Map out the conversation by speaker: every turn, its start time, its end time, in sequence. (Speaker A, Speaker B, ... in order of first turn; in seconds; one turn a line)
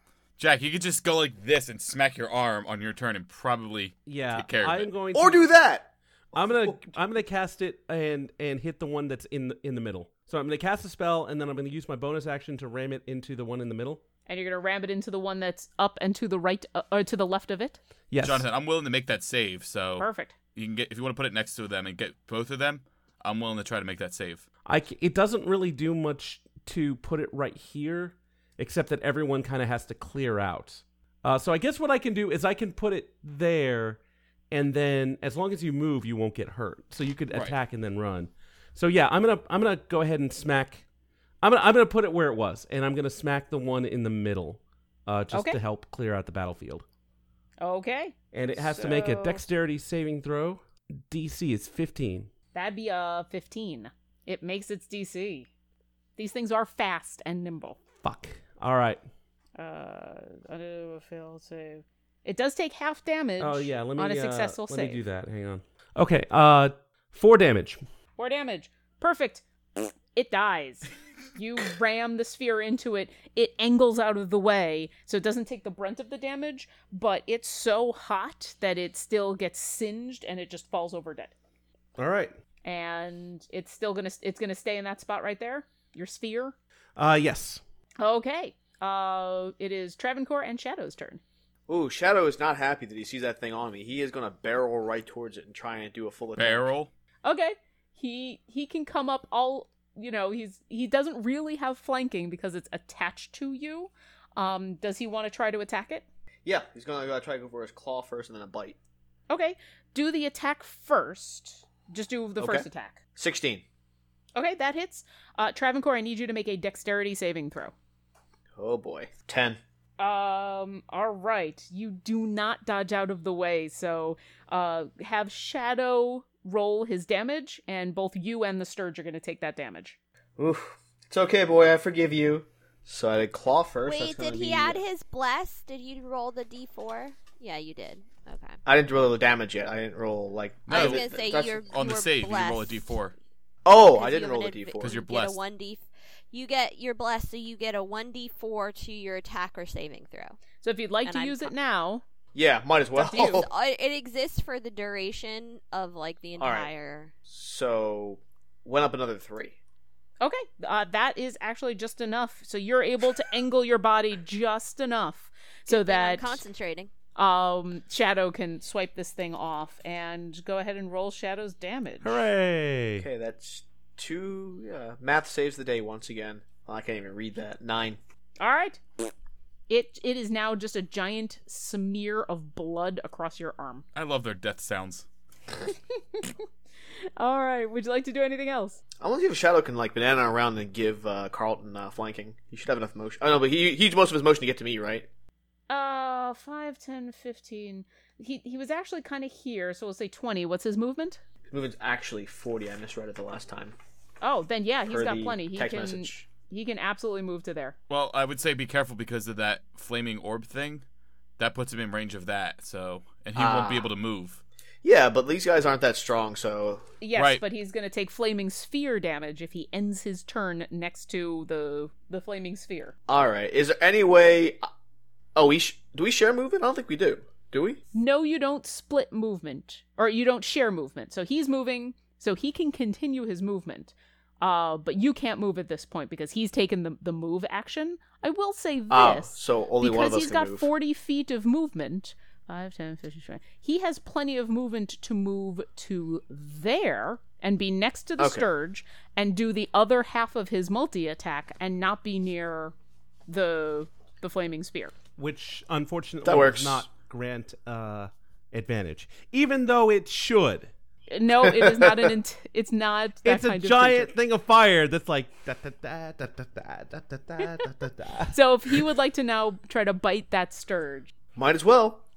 Speaker A: 0.4-4.9
Speaker B: 4.1-5.5
Speaker C: 5.1-7.0
Speaker B: 6.3-14.0
Speaker D: 14.3-17.8
Speaker B: 18.1-18.4
Speaker A: 18.2-24.5
Speaker D: 20.0-20.4
Speaker B: 24.7-34.0
Speaker B: 34.5-40.8
Speaker B: 41.4-46.9
Speaker D: 45.3-45.6
Speaker D: 47.6-49.4
Speaker B: 48.3-52.3
Speaker D: 52.5-55.5
Speaker D: 56.2-57.8
Speaker B: 58.0-59.0
Speaker D: 59.6-65.0
Speaker B: 63.4-67.8
Speaker D: 68.2-81.3
Speaker B: 82.0-82.3
Speaker D: 82.6-86.6
Speaker B: 87.0-87.6
Speaker D: 88.0-91.2
Speaker C: 91.7-96.7
Speaker A: 96.4-96.9
Speaker D: 97.2-106.0
Speaker C: 106.5-108.8
Speaker D: 109.3-113.0
Speaker C: 112.4-113.7
Speaker D: 114.4-117.7
Speaker C: 118.6-119.6
Speaker D: 120.0-130.0
Speaker C: 130.4-134.8
Speaker E: 133.8-138.6
Speaker C: 138.7-141.7
Speaker A: 140.7-141.1
Speaker E: 140.7-142.9
Speaker A: 141.7-143.2
Speaker C: 143.7-145.0
Speaker E: 143.7-150.4
Speaker A: 144.8-145.4
Speaker D: 150.6-152.0
Speaker E: 151.1-151.5
Speaker C: 152.3-153.5
Speaker D: 153.0-153.4
Speaker E: 153.1-157.1
Speaker C: 156.4-156.7
Speaker C: 157.3-159.6
Speaker D: 160.2-166.4
Speaker E: 165.7-166.9
Speaker D: 167.2-172.2
Speaker B: 172.0-173.1
Speaker C: 173.0-178.0
Speaker D: 178.4-179.1
Speaker D: 179.7-183.8
Speaker A: 183.9-185.1
Speaker D: 185.6-186.4
Speaker D: 187.2-188.8
Speaker C: 189.0-195.1
Speaker D: 195.7-201.2
Speaker C: 201.5-203.8
Speaker D: 204.2-207.8
Speaker C: 204.9-206.3
Speaker A: 207.9-210.8
Speaker A: 211.4-214.4
Speaker C: 213.4-213.9
Speaker C: 214.8-216.8
Speaker D: 217.0-222.9
Speaker A: 217.2-217.4
Speaker C: 223.1-224.7
Speaker C: 225.3-227.8
Speaker D: 227.9-252.7
Speaker C: 238.9-240.7
Speaker C: 248.2-248.5
Speaker D: 253.3-254.9
Speaker B: 255.2-260.7
Speaker C: 256.2-256.9
Speaker D: 261.1-264.1
Speaker C: 261.4-262.1
Speaker B: 263.2-268.9
Speaker D: 268.3-271.1
Speaker C: 271.4-272.0